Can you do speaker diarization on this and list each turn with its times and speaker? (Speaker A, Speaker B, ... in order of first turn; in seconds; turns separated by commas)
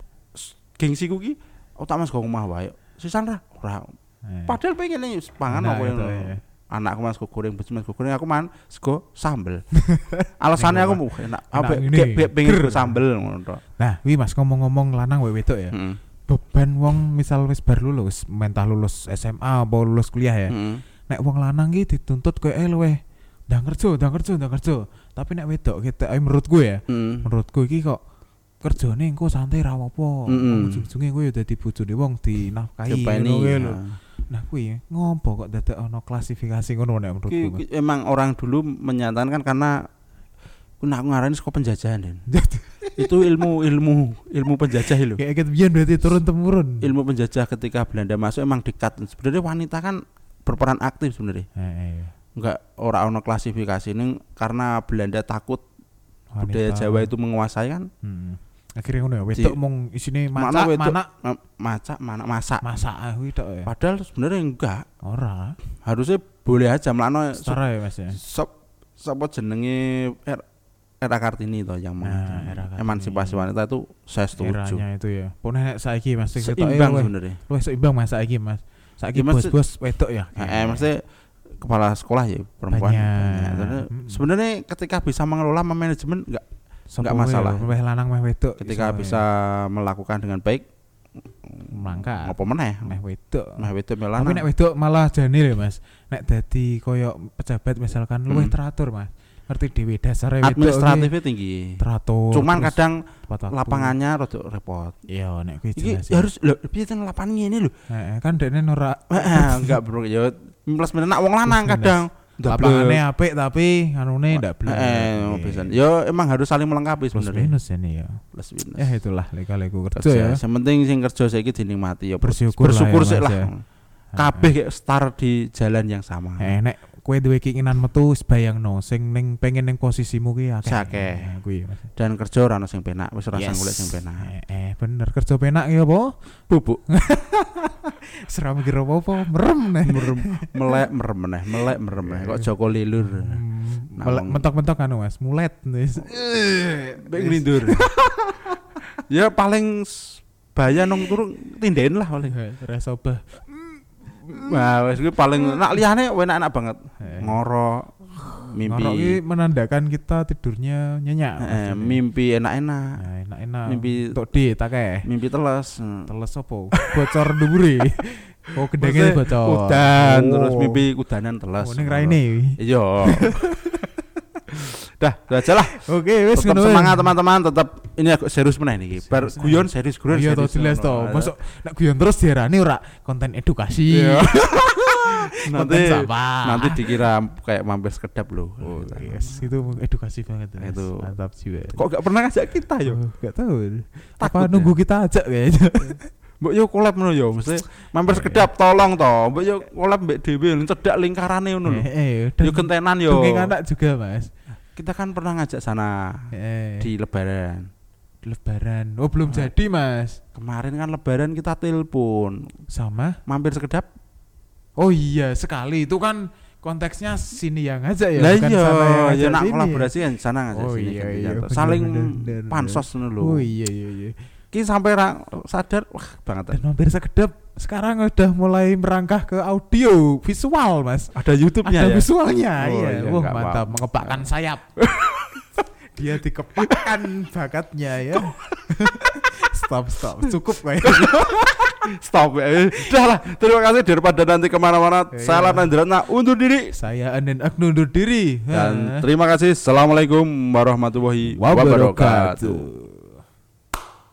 Speaker A: 0.3-3.9, Speaker B: 4.3-4.6, Speaker A: 4.5-9.7, Speaker B: 5.5-6.4, Speaker B: 9.9-13.0, Speaker A: 10.4-13.6, Speaker B: 13.8-15.8, Speaker A: 15.7-16.0, Speaker B: 16.3-20.6, Speaker A: 20.5-20.8, Speaker B: 21.1-23.0, Speaker B: 23.5-28.0, Speaker A: 26.9-27.3, Speaker B: 28.6-33.8, Speaker A: 30.3-30.9, Speaker A: 32.9-34.0, Speaker B: 34.3-37.6, Speaker A: 37.3-39.8, Speaker A: 40.8-42.2, Speaker B: 42.3-43.1, Speaker A: 43.0-45.2, Speaker B: 45.1-46.9, Speaker A: 46.8-51.5, Speaker B: 51.6-52.1, Speaker A: 52.4-55.6, Speaker B: 56.3-57.1, Speaker A: 56.4-57.9, Speaker B: 58.0-61.1, Speaker A: 60.4-62.7, Speaker B: 62.6-63.7, Speaker A: 63.6-64.8, Speaker B: 65.0-65.6, Speaker A: 65.8-67.6, Speaker B: 67.3-68.2, Speaker A: 68.1-70.4, Speaker A: 71.0-74.8, Speaker B: 72.0-73.5, Speaker B: 74.4-80.9, Speaker A: 76.4-77.4, Speaker A: 79.2-79.6, Speaker A: 80.4-81.0, Speaker A: 81.6-86.4, Speaker B: 82.7-84.2, Speaker B: 86.9-89.2, Speaker A: 87.0-87.7, Speaker A: 88.6-90.6, Speaker A: 91.5-93.0, Speaker B: 91.7-101.1, Speaker A: 93.6-94.5, Speaker A: 98.3-98.6, Speaker A: 100.4-101.8, Speaker B: 101.8-104.0, Speaker A: 102.3-105.0, Speaker B: 105.1-106.3, Speaker A: 105.8-107.7, Speaker B: 107.9-109.8, Speaker A: 109.1-113.0, Speaker B: 111.5-115.7, Speaker A: 114.3-117.5, Speaker B: 117.1-118.2, Speaker A: 118.3-118.9, Speaker B: 118.8-120.4, Speaker A: 120.0-123.6, Speaker B: 122.2-123.5, Speaker A: 124.2-126.5, Speaker B: 124.2-124.5, Speaker B: 126.4-131.9, Speaker A: 130.6-131.3, Speaker A: 132.0-134.3, Speaker B: 133.3-136.1, Speaker A: 136.5-136.8, Speaker B: 136.9-140.5, Speaker A: 139.8-143.4, Speaker B: 142.1-142.5, Speaker B: 143.0-148.6, Speaker A: 143.9-144.5, Speaker A: 147.0-147.9, Speaker A: 149.1-152.3, Speaker B: 152.2-154.6, Speaker A: 154.3-159.2, Speaker B: 157.0-157.4, Speaker B: 158.6-162.0, Speaker A: 161.4-162.9, Speaker B: 163.0-165.1, Speaker A: 163.7-164.2, Speaker A: 165.1-166.1, Speaker B: 166.1-170.8, Speaker A: 168.8-173.7, Speaker B: 171.6-173.7, Speaker A: 175.0-175.8, Speaker B: 175.8-177.1, Speaker A: 176.3-181.3, Speaker B: 178.9-187.0, Speaker A: 183.9-189.4, Speaker B: 188.6-191.8, Speaker A: 190.6-191.0, Speaker A: 191.7-193.0, Speaker B: 192.8-196.0, Speaker A: 194.2-194.7, Speaker A: 195.8-201.9, Speaker B: 198.1-198.5, Speaker B: 201.7-204.3, Speaker A: 202.4-203.5, Speaker A: 204.8-207.7, Speaker B: 206.3-206.9, Speaker B: 208.3-210.2, Speaker A: 210.3-212.5, Speaker B: 212.7-213.2, Speaker A: 213.3-213.9, Speaker B: 214.8-219.9, Speaker A: 218.2-223.4, Speaker B: 220.5-224.2, Speaker A: 224.5-226.6, Speaker B: 226.5-231.1, Speaker A: 231.1-234.3, Speaker B: 231.7-234.7, Speaker A: 234.8-235.4, Speaker B: 235.9-241.6, Speaker A: 240.8-246.7, Speaker B: 245.1-245.7, Speaker B: 246.7-249.0, Speaker A: 248.5-252.7, Speaker B: 251.3-253.2